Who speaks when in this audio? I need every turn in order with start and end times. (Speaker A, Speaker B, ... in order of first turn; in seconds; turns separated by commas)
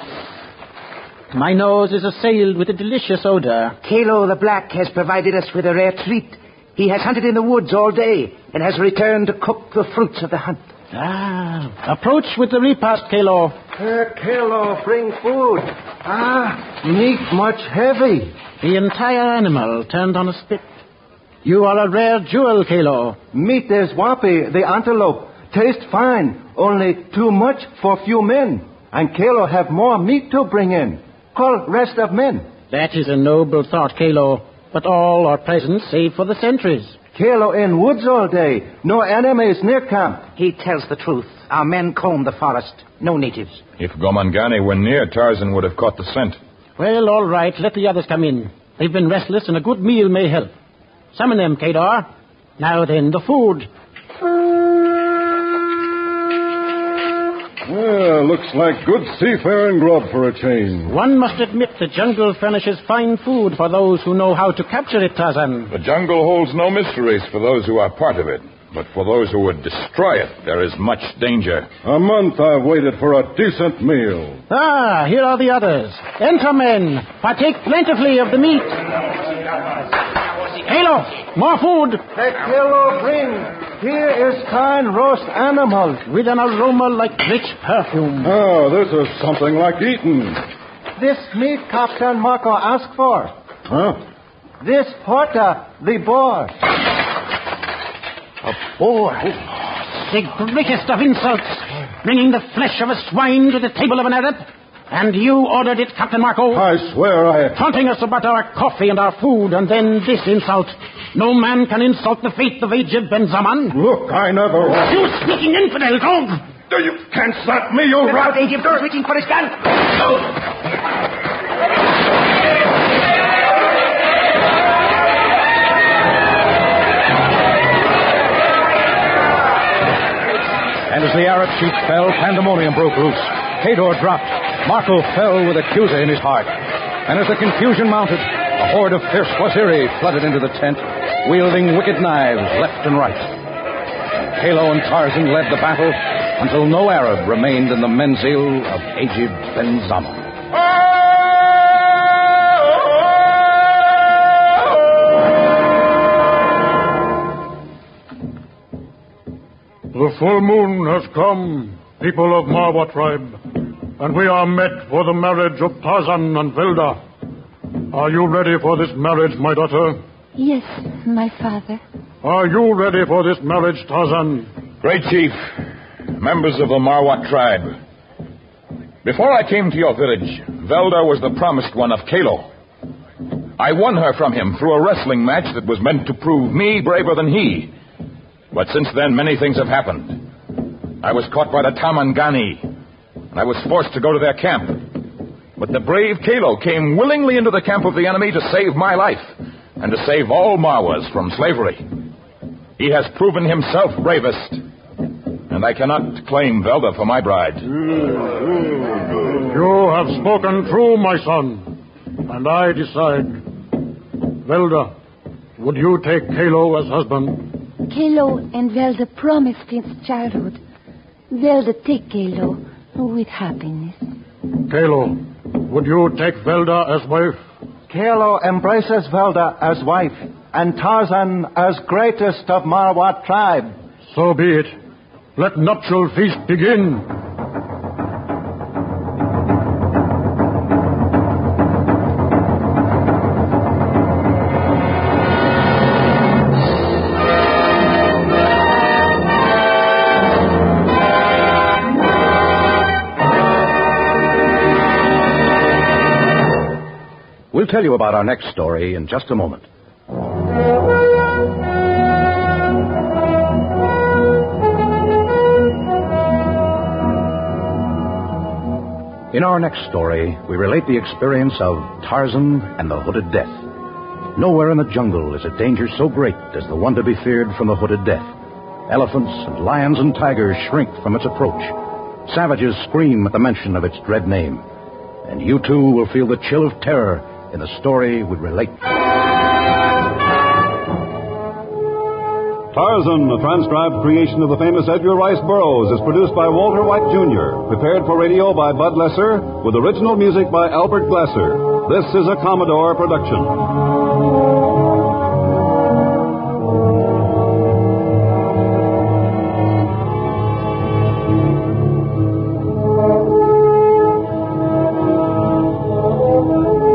Speaker A: 1.3-3.8, Speaker B: 4.0-10.6, Speaker A: 10.9-13.6, Speaker C: 13.7-18.3, Speaker A: 18.6-20.6, Speaker A: 21.4-23.2, Speaker C: 23.3-32.5, Speaker A: 32.7-37.0, Speaker C: 37.1-40.3, Speaker D: 40.4-42.1, Speaker B: 40.4-43.5, Speaker E: 43.8-46.4, Speaker A: 46.8-50.5, Speaker A: 51.1-52.1, Speaker A: 52.6-53.7, Speaker F: 57.6-60.9, Speaker A: 60.9-65.7, Speaker E: 65.7-71.7, Speaker F: 71.8-74.4, Speaker A: 74.5-78.8, Speaker A: 80.6-82.0, Speaker C: 82.1-86.0, Speaker A: 86.1-88.3, Speaker F: 88.2-90.4, Speaker C: 91.0-93.3, Speaker F: 93.7-94.0, Speaker C: 94.6-96.5, Speaker A: 99.6-106.6, Speaker F: 106.5-107.5, Speaker A: 107.5-113.8, Speaker F: 113.7-115.0, Speaker A: 114.7-116.4, Speaker F: 116.7-118.2, Speaker D: 130.9-143.3, Speaker D: 144.2-150.3, Speaker G: 159.9-163.4, Speaker G: 164.0-167.0, Speaker G: 167.9-170.0, Speaker H: 170.3-171.8, Speaker G: 172.2-174.5, Speaker E: 174.8-175.5, Speaker E: 176.2-177.8, Speaker E: 179.0-182.5, Speaker E: 183.6-187.7, Speaker E: 188.5-190.3, Speaker E: 191.0-192.7, Speaker E: 193.3-194.9, Speaker E: 195.6-201.8, Speaker E: 202.8-204.6, Speaker E: 205.5-207.7, Speaker G: 209.5-213.4, Speaker G: 214.4-214.9, Speaker G: 215.6-217.6, Speaker H: 217.8-220.6, Speaker H: 221.3-224.0, Speaker G: 224.7-227.4, Speaker C: 227.9-233.7, Speaker G: 234.1-234.8, Speaker G: 235.4-237.1, Speaker D: 257.5-259.6, Speaker D: 269.3-273.7, Speaker D: 274.3-278.3, Speaker D: 278.9-284.6, Speaker D: 285.2-288.8, Speaker I: 292.7-303.6